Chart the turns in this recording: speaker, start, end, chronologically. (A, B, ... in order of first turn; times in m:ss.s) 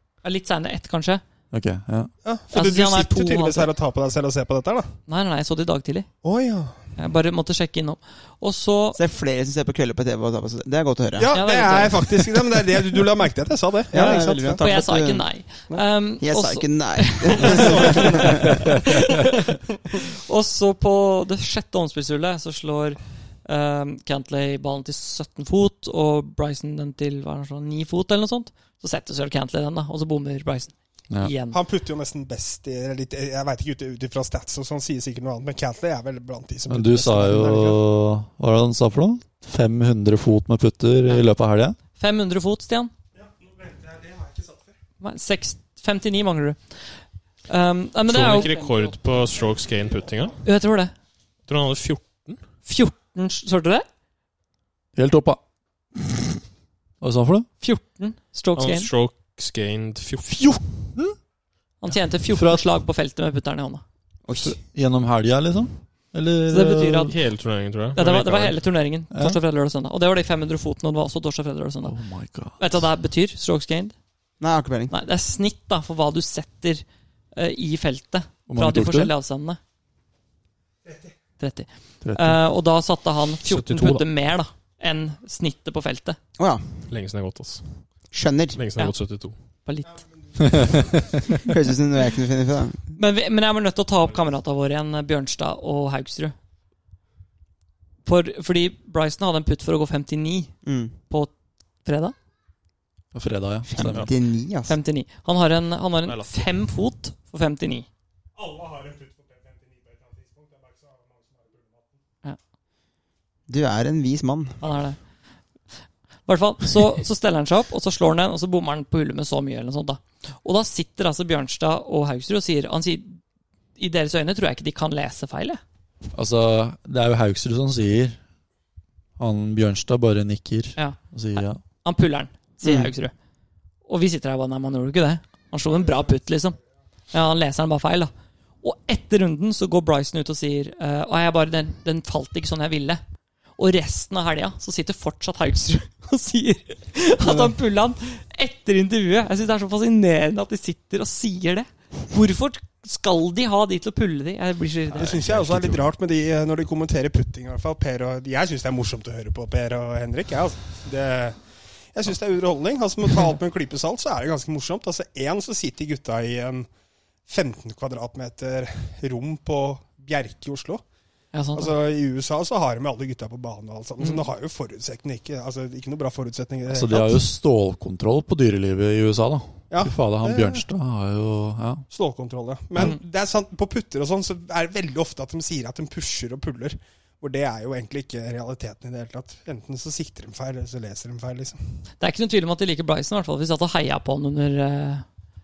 0:00.2-0:01.2 A
0:01.5-0:02.1 B
0:02.2-0:04.9 C
0:02.5-0:03.7 A
0:05.1-0:06.1 A
0:06.2-0:06.8 C
0:07.0-0:09.0 A
0:09.0-0:11.4 D
0:11.2-0:14.6 C
0:11.3-0:12.2 A
0:13.9-0:15.2 D
0:14.0-0:31.6 A
0:16.2-0:18.7 D
0:17.4-0:18.4 C
0:18.4-0:18.8 B
0:31.5-0:37.8 C
0:36.7-0:41.8 B
0:42.0-0:42.9 A
0:43.2-0:44.7 C
0:45.0-0:46.6 A
0:47.5-0:48.9 A
0:48.1-0:50.4 E
0:50.4-0:50.9 A
0:51.5-0:52.4 E
0:52.6-0:53.9 A
0:55.0-0:55.4 B
0:56.0-0:56.3 B
0:57.0-0:57.5 B
0:57.6-0:58.9 A
0:58.6-1:00.4 E
1:00.3-1:01.2 B
1:01.8-1:03.8 A
1:01.9-1:02.6 B
1:04.3-1:04.6 D
1:04.3-1:07.2 B
1:06.5-1:07.2 A
1:07.1-1:08.6 E
1:08.0-1:12.0 A
1:09.1-1:09.4 B
1:11.8-1:12.8 B
1:12.6-1:14.0 A
1:14.4-1:14.9 D
1:14.9-1:19.6 A
1:18.5-1:19.1 B
1:21.4-1:26.2 A
1:22.0-1:22.4 B
1:23.6-1:24.0 B
1:26.4-1:26.6 D
1:26.9-1:27.6 E
1:28.1-1:28.6 D
1:28.6-1:29.4 E
1:29.6-1:29.9 A
1:30.4-1:31.2 B
1:31.4-1:32.8 D
1:33.0-1:36.4 A
1:38.0-1:40.5 A
1:40.6-1:40.9 D
1:41.8-1:42.2 A
1:43.1-1:44.1 B
1:43.7-1:44.8 D
1:44.7-1:47.9 A
1:46.1-1:46.3 E
1:48.4-1:52.0 C
1:53.5-1:54.6 D
1:54.6-1:55.0 A
1:56.3-2:03.2 A
2:03.8-2:05.6 A
2:06.2-2:08.2 B
2:09.2-2:11.6 B
2:10.8-2:13.1 A
2:12.6-2:12.9 D
2:13.9-2:16.6 A
2:17.1-2:18.1 A
2:18.6-2:23.0 A
2:23.6-2:35.2 A
2:35.0-2:41.4 C
2:35.5-2:35.8 B
2:41.9-2:46.7 C
2:47.3-2:50.8 C
2:51.3-2:51.7 A
2:51.6-2:57.2 C
2:54.0-2:54.3 A
2:56.7-3:01.9 B
2:59.7-3:00.6 C
3:01.9-3:11.6 C
3:12.0-3:15.0 A